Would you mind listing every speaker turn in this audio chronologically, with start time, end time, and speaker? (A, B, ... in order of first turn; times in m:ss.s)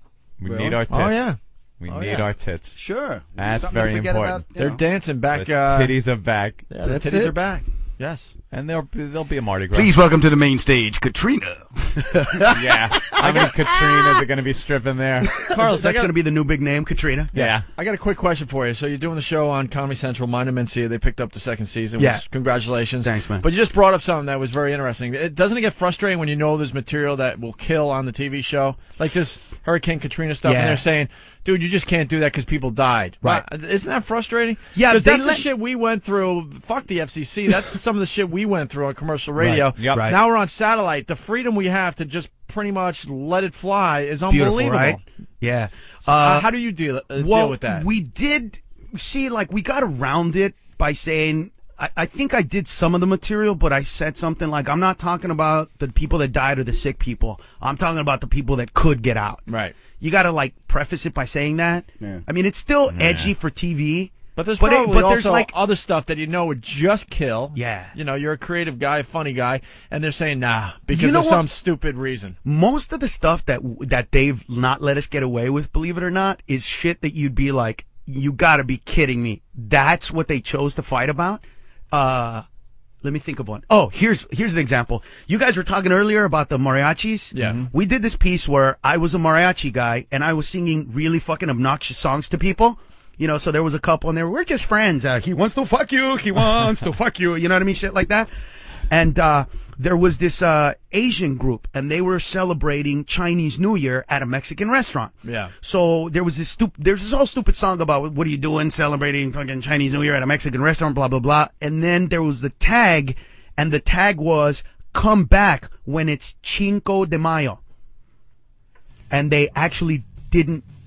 0:00.4-0:01.3 A
0:00.4-0:00.8 B
0:00.9-0:02.3 C
0:01.8-0:02.8 A
0:02.7-0:04.8 B
0:03.4-0:04.4 A
0:04.6-0:06.0 C
0:05.3-0:06.6 A
0:06.7-0:08.3 C
0:06.8-0:07.4 B
0:08.5-0:09.9 A
0:09.7-0:13.8 B
0:12.5-0:15.3 A
0:15.5-0:16.1 C
0:15.7-0:17.5 D
0:17.3-0:45.0 C
0:17.3-0:17.6 A
0:22.0-0:22.2 D
0:23.0-0:23.4 D
0:30.4-0:30.9 D
0:34.7-0:35.4 D
0:39.4-0:40.2 D
0:39.8-0:40.1 A
0:44.3-0:46.5 D
0:46.1-0:47.8 C
0:47.1-0:59.4 D
0:59.5-0:59.8 C
1:00.0-1:05.5 D
1:02.9-1:03.3 A
1:04.4-1:12.4 C
1:07.5-1:07.9 D
1:10.9-1:11.5 D
1:12.4-1:22.4 D
1:23.0-1:38.3 D
1:27.3-1:27.6 C
1:27.4-1:27.7 A
1:38.9-1:57.6 D
1:45.2-1:45.5 C
1:59.1-2:00.6 D